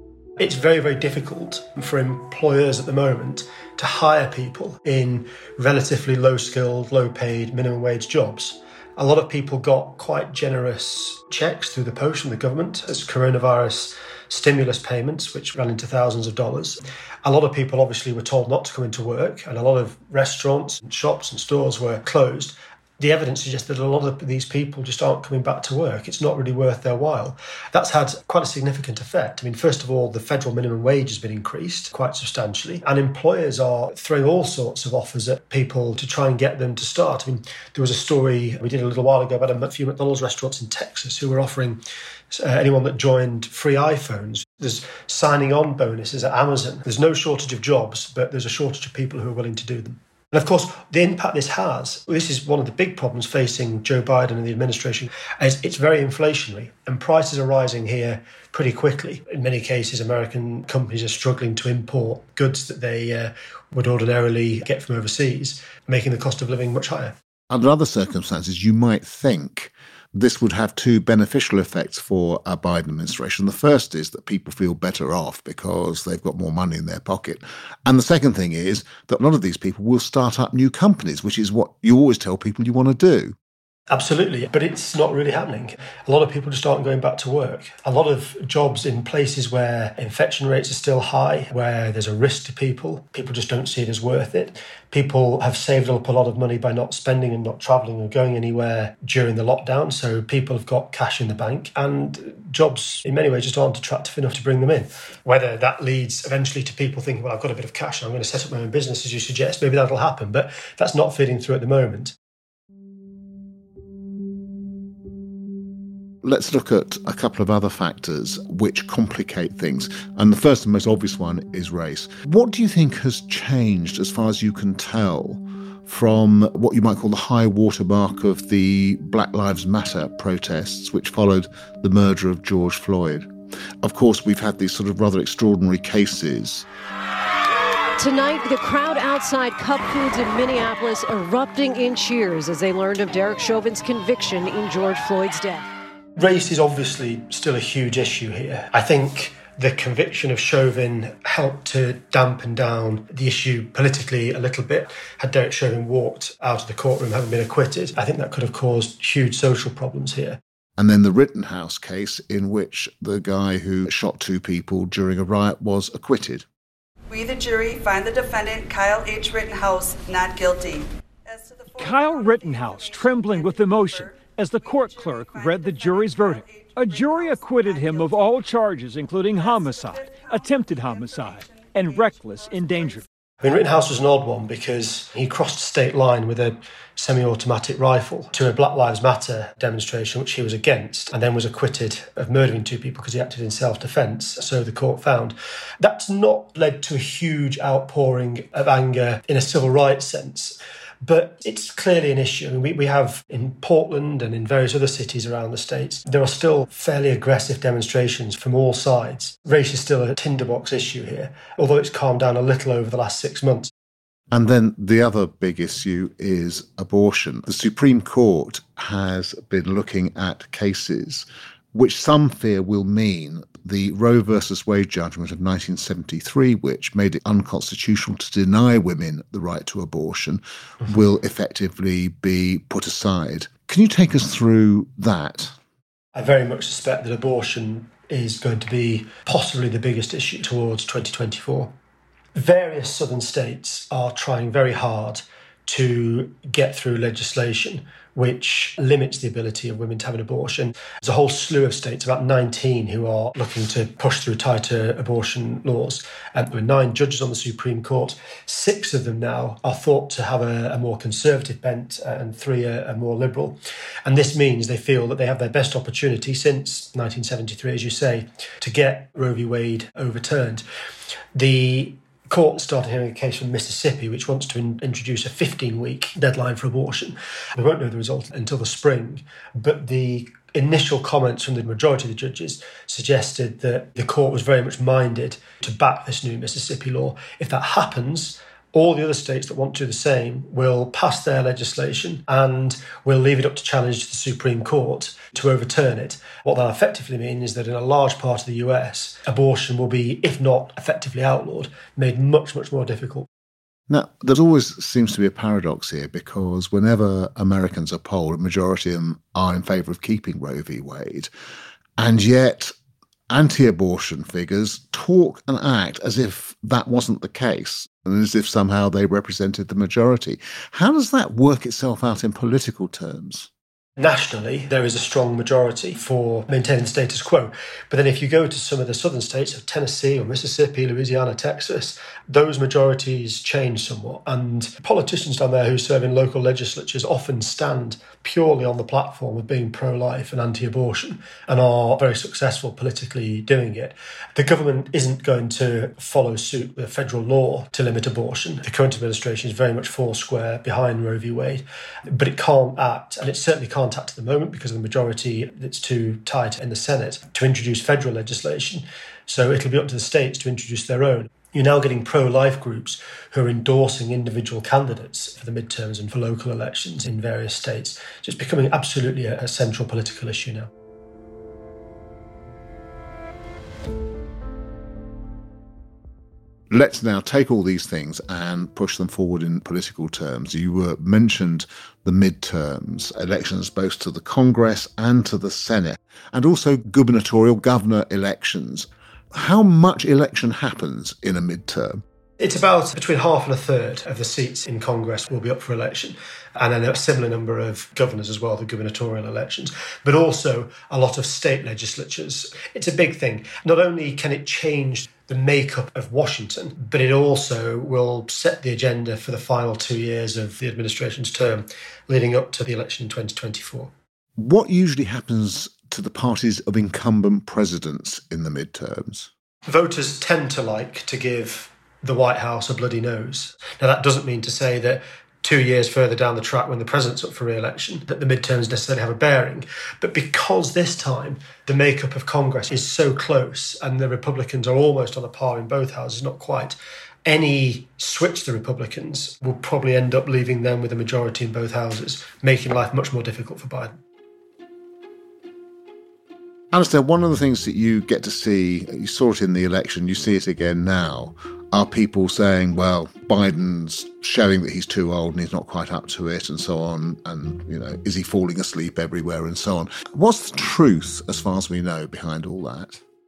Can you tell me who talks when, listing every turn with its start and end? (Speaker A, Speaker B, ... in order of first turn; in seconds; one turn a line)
Speaker A: 0.4-67.2
Speaker B: 67.5-83.3
Speaker A: 83.9-112.1
Speaker B: 116.2-136.7
Speaker C: 138.0-145.7
Speaker A: 146.2-160.4
Speaker B: 160.8-166.4
Speaker D: 167.1-178.4
Speaker E: 171.7-183.0
Speaker D: 179.3-183.0
Speaker A: 183.4-213.7
Speaker B: 214.3-235.5
Speaker A: 236.1-241.7
Speaker A: 242.3-270.6
Speaker A: 271.3-303.3
Speaker B: 303.9-311.3
Speaker B: 312.0-312.7
Speaker B: 313.3-323.5
Speaker A: 324.0-370.7
Speaker B: 376.7-392.0
Speaker A: 392.4-413.9
Speaker B: 414.4-419.3
Speaker A: 419.7-443.9
Speaker B: 446.7-463.0